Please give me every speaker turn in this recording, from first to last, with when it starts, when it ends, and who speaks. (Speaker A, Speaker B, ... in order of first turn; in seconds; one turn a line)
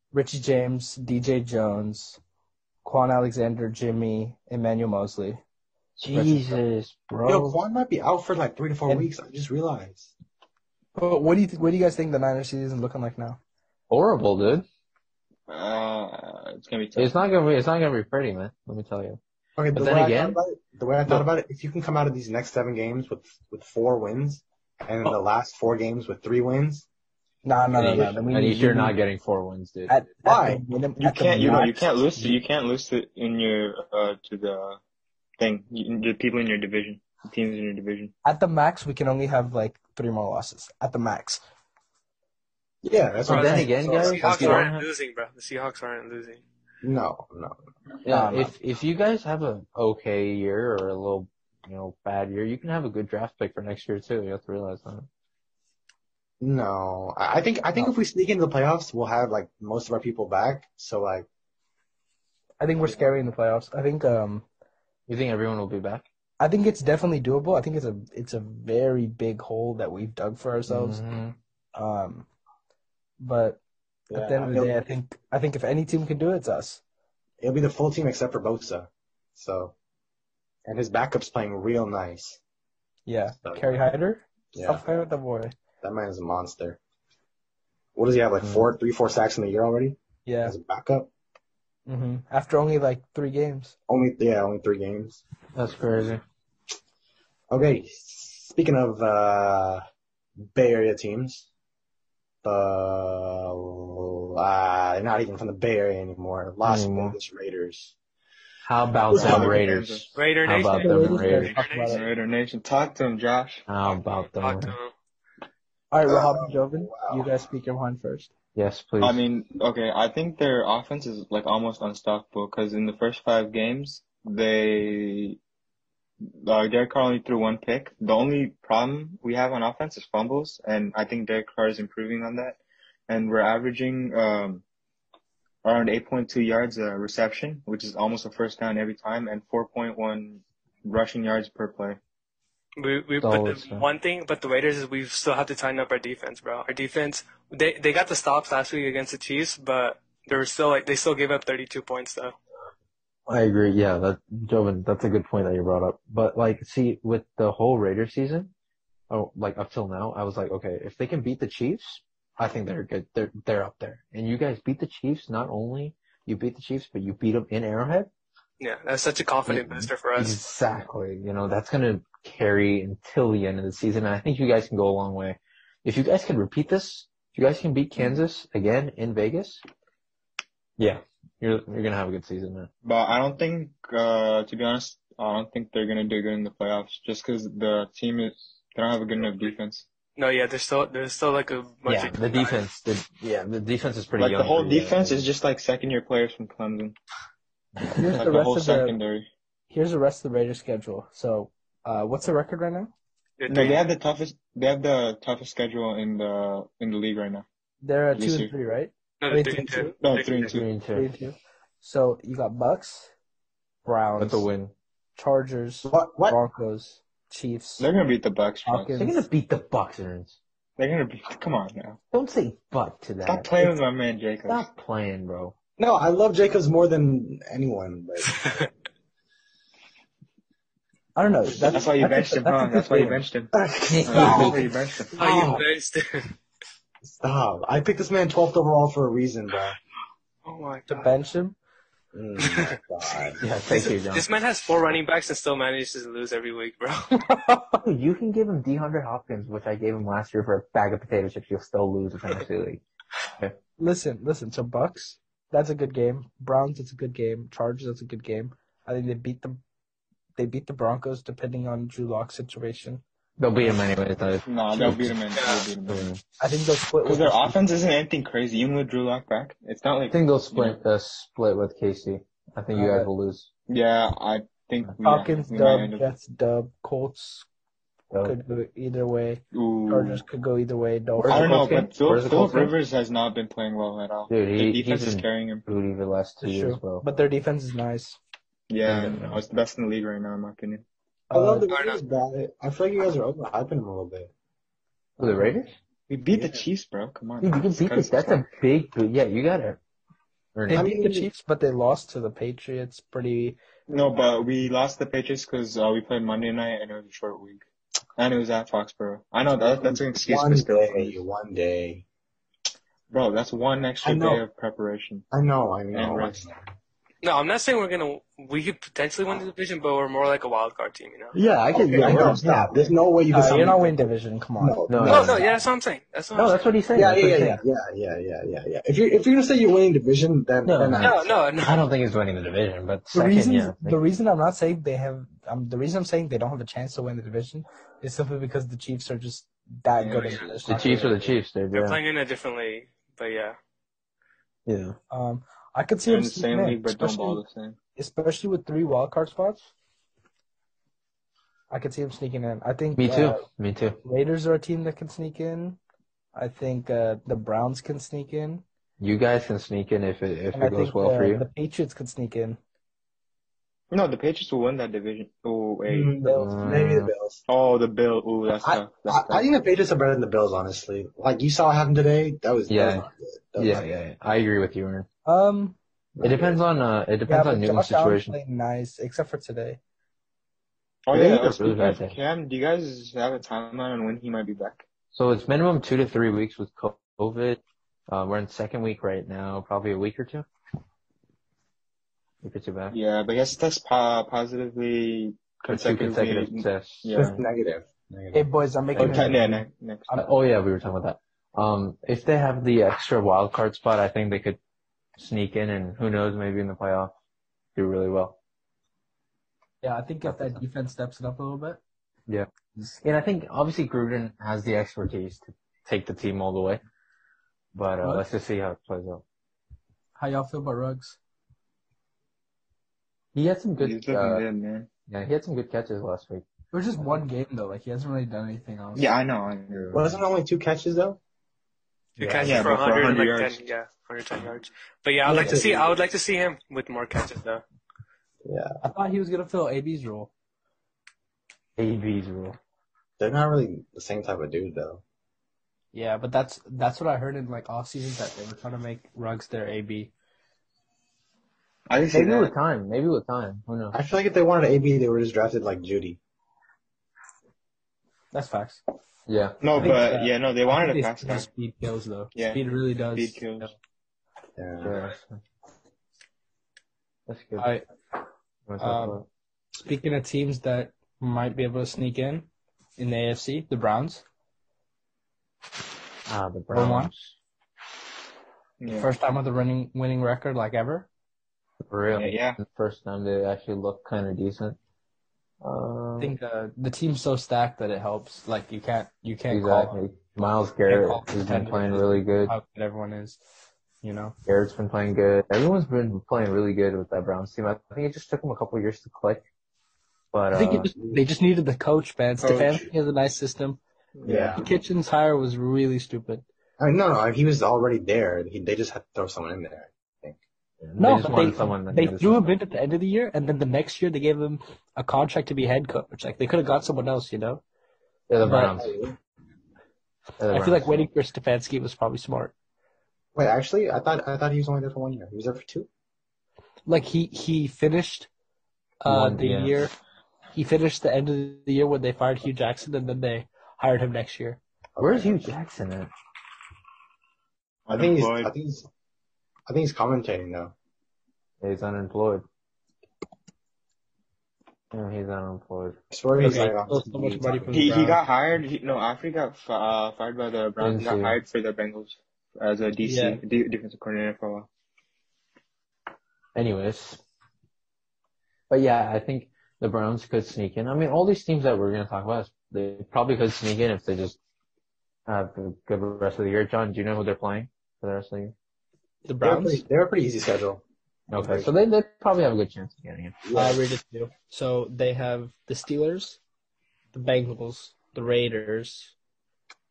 Speaker A: 0.1-2.2
Speaker A: 2.8-5.4
Speaker B: 6.0-7.6
Speaker A: 6.0-6.6
Speaker C: 7.3-10.1
Speaker A: 10.9-13.4
Speaker B: 13.9-14.7
Speaker D: 15.5-17.1
Speaker B: 17.0-19.2
Speaker C: 19.6-26.9
Speaker B: 19.7-20.4
Speaker A: 27.4-29.0
Speaker B: 27.7-29.9
Speaker A: 29.9-32.4
Speaker C: 30.3-30.6
Speaker D: 31.0-34.8
Speaker D: 35.4-38.1
Speaker A: 38.2-41.4
Speaker C: 42.8-44.7
Speaker E: 43.3-46.4
Speaker B: 43.3-44.9
Speaker C: 46.8-47.6
Speaker B: 48.0-55.1
Speaker A: 48.1-48.5
Speaker C: 56.4-61.3
Speaker A: 62.6-64.5
Speaker B: 65.1-66.0
Speaker A: 66.4-71.0
Speaker B: 70.7-71.4
Speaker A: 71.8-72.3
Speaker A: 73.2-76.8
Speaker C: 74.1-74.8
Speaker C: 77.4-79.7
Speaker C: 80.7-82.4
Speaker A: 83.1-85.6
Speaker C: 84.5-84.8
Speaker C: 85.8-86.8
Speaker C: 88.0-91.1
Speaker B: 88.4-88.7
Speaker A: 90.3-90.6
Speaker A: 91.9-93.7
Speaker C: 93.9-95.2
Speaker B: 95.5-96.2
Speaker C: 97.5-99.8
Speaker C: 100.5-101.5
Speaker C: 102.4-107.9
Speaker B: 106.6-107.2
Speaker B: 108.7-111.5
Speaker D: 109.1-110.2
Speaker C: 109.1-109.6
Speaker E: 110.1-112.0
Speaker A: 110.7-112.0
Speaker D: 111.8-113.7
Speaker B: 113.7-114.8
Speaker E: 114.2-114.9
Speaker A: 115.9-118.3
Speaker C: 116.1-117.2
Speaker B: 118.5-119.2
Speaker D: 119.0-125.4
Speaker D: 126.3-134.6
Speaker D: 135.6-142.0
Speaker E: 142.8-152.4
Speaker B: 143.2-143.9
Speaker B: 153.3-158.5
Speaker B: 159.1-168.1
Speaker E: 168.6-170.4
Speaker B: 169.5-179.6
Speaker B: 180.8-182.7
Speaker D: 182.8-189.9
Speaker E: 190.2-192.6
Speaker B: 191.9-195.3
Speaker D: 194.2-197.0
Speaker B: 197.8-198.2
Speaker A: 197.9-199.0
Speaker D: 198.1-199.3
Speaker A: 199.7-202.9
Speaker E: 203.4-203.8
Speaker D: 203.5-207.4
Speaker A: 207.8-209.9
Speaker D: 208.1-208.5
Speaker E: 209.2-210.5
Speaker D: 210.0-210.6
Speaker B: 210.5-211.1
Speaker A: 210.9-213.1
Speaker A: 213.8-214.5
Speaker B: 214.2-214.7
Speaker A: 215.2-217.9
Speaker C: 215.8-216.4
Speaker D: 217.8-219.0
Speaker A: 218.7-219.2
Speaker B: 219.0-220.4
Speaker D: 220.8-222.0
Speaker B: 222.1-223.5
Speaker D: 223.2-224.7
Speaker B: 224.5-225.6
Speaker C: 225.8-228.7
Speaker E: 228.3-228.7
Speaker A: 231.2-233.3
Speaker D: 231.6-233.5
Speaker C: 233.5-235.7
Speaker B: 233.9-234.7
Speaker D: 234.1-235.2
Speaker E: 235.2-236.3
Speaker C: 237.0-239.8
Speaker E: 240.4-241.1
Speaker A: 240.9-241.6
Speaker C: 242.1-243.4
Speaker E: 242.4-242.8
Speaker B: 243.4-244.3
Speaker E: 243.7-247.3
Speaker A: 247.2-247.8
Speaker B: 247.8-252.8
Speaker A: 253.8-259.6
Speaker A: 260.4-263.0
Speaker B: 263.4-265.2
Speaker D: 264.5-266.1
Speaker B: 265.9-266.2
Speaker A: 266.4-267.6
Speaker D: 267.1-270.8
Speaker B: 270.1-273.5
Speaker A: 272.7-273.1
Speaker D: 273.7-276.0
Speaker A: 275.0-277.5
Speaker B: 278.1-278.4
Speaker A: 278.2-281.7
Speaker D: 279.5-280.2
Speaker B: 281.2-282.8
Speaker D: 281.3-285.6
Speaker B: 284.3-287.1
Speaker A: 286.4-288.2
Speaker D: 288.7-290.8
Speaker B: 288.8-289.4
Speaker A: 291.3-291.7
Speaker C: 291.3-294.3
Speaker E: 291.7-292.0
Speaker B: 295.2-295.7
Speaker C: 295.2-295.5
Speaker D: 296.1-298.4
Speaker C: 296.3-296.6
Speaker B: 297.4-299.8
Speaker B: 300.5-300.9
Speaker A: 300.7-303.6
Speaker C: 300.7-301.3
Speaker D: 303.9-307.6
Speaker D: 308.2-311.2
Speaker C: 309.8-312.1
Speaker D: 313.1-315.3
Speaker C: 314.0-314.4
Speaker C: 315.3-316.6
Speaker D: 315.9-316.4
Speaker E: 317.2-321.4
Speaker C: 321.4-324.0
Speaker D: 321.8-322.8
Speaker A: 322.1-322.7
Speaker A: 323.3-325.4
Speaker C: 324.6-325.6
Speaker B: 324.9-325.5
Speaker E: 325.1-326.6
Speaker B: 326.3-327.6
Speaker C: 326.9-331.3
Speaker B: 330.6-334.0
Speaker E: 331.0-331.8
Speaker A: 333.1-341.2
Speaker D: 340.0-341.1
Speaker B: 340.7-342.0
Speaker E: 341.7-343.6
Speaker B: 344.7-345.0
Speaker A: 345.1-347.4
Speaker D: 346.1-347.8
Speaker A: 348.0-349.7
Speaker A: 351.7-353.4
Speaker B: 353.0-354.0
Speaker A: 354.0-355.8
Speaker A: 356.3-358.6
Speaker B: 359.0-361.5
Speaker A: 360.5-362.6
Speaker D: 363.9-366.2
Speaker C: 365.9-367.4
Speaker A: 366.2-366.6
Speaker B: 366.3-367.1
Speaker D: 367.5-369.5
Speaker C: 368.6-373.9
Speaker B: 372.7-375.1
Speaker A: 375.2-375.8
Speaker C: 376.2-376.6
Speaker B: 376.2-378.4
Speaker A: 377.3-379.8
Speaker D: 381.1-384.8
Speaker B: 381.1-382.2
Speaker B: 385.1-390.5
Speaker B: 392.4-393.0
Speaker D: 392.9-397.4
Speaker B: 395.7-397.4
Speaker C: 397.1-398.5
Speaker A: 398.3-400.3
Speaker B: 399.0-399.3
Speaker D: 399.0-400.1
Speaker B: 400.1-404.6
Speaker B: 405.2-407.1
Speaker B: 407.8-408.4
Speaker A: 409.8-411.8
Speaker B: 410.2-410.6
Speaker B: 413.0-416.8
Speaker B: 417.7-419.2
Speaker A: 420.2-421.2
Speaker B: 423.4-424.5
Speaker D: 423.8-424.9
Speaker B: 425.1-426.5
Speaker A: 426.7-429.1
Speaker D: 428.9-430.2
Speaker C: 429.9-431.2
Speaker E: 432.2-437.6
Speaker C: 432.2-432.9
Speaker D: 432.4-433.7
Speaker C: 435.3-435.9
Speaker C: 438.4-438.8
Speaker A: 438.8-440.3
Speaker B: 441.8-442.6
Speaker C: 443.2-445.0
Speaker A: 445.9-450.1
Speaker D: 451.9-452.5
Speaker B: 452.1-454.0
Speaker C: 453.9-456.2
Speaker A: 458.3-458.8
Speaker B: 459.3-460.0
Speaker D: 459.6-461.5
Speaker A: 459.8-463.7
Speaker D: 462.4-462.6
Speaker D: 463.1-463.7
Speaker C: 464.6-465.0
Speaker B: 464.8-465.4
Speaker B: 467.3-467.7
Speaker A: 467.6-467.9
Speaker B: 468.7-469.3
Speaker A: 468.8-469.2
Speaker A: 469.7-474.2
Speaker B: 476.3-477.4
Speaker A: 476.7-477.1
Speaker D: 478.8-479.1
Speaker A: 478.9-481.1
Speaker B: 481.9-484.8
Speaker D: 482.1-482.6
Speaker B: 485.6-486.4
Speaker A: 486.2-490.0
Speaker B: 489.5-492.5
Speaker A: 490.9-493.4
Speaker A: 494.0-494.4
Speaker B: 494.5-499.4
Speaker B: 500.3-500.9
Speaker A: 500.5-503.8
Speaker D: 502.4-502.8
Speaker D: 504.2-504.6
Speaker C: 504.2-504.7
Speaker A: 504.5-506.4
Speaker C: 506.8-510.4
Speaker B: 510.8-512.5
Speaker A: 511.0-517.6
Speaker B: 518.3-519.0
Speaker A: 518.4-518.8
Speaker C: 518.6-519.2
Speaker B: 520.4-521.1
Speaker A: 520.5-522.5
Speaker C: 523.4-525.9
Speaker A: 526.9-528.3
Speaker A: 529.0-529.9
Speaker B: 529.1-529.8
Speaker A: 530.5-534.6
Speaker C: 535.0-535.5
Speaker B: 535.0-536.1
Speaker D: 537.9-538.5
Speaker C: 537.9-538.9
Speaker C: 539.7-540.7
Speaker B: 541.6-542.5
Speaker B: 544.9-546.7
Speaker C: 546.1-548.0
Speaker A: 546.4-548.2
Speaker D: 547.7-554.7
Speaker B: 550.8-551.4
Speaker A: 553.0-553.4
Speaker B: 556.5-557.2
Speaker B: 558.7-564.4
Speaker B: 565.3-568.5
Speaker A: 569.2-569.8
Speaker C: 569.4-570.8
Speaker B: 571.3-573.4
Speaker C: 571.3-571.7
Speaker C: 573.4-573.8
Speaker A: 573.5-576.4
Speaker A: 577.1-579.1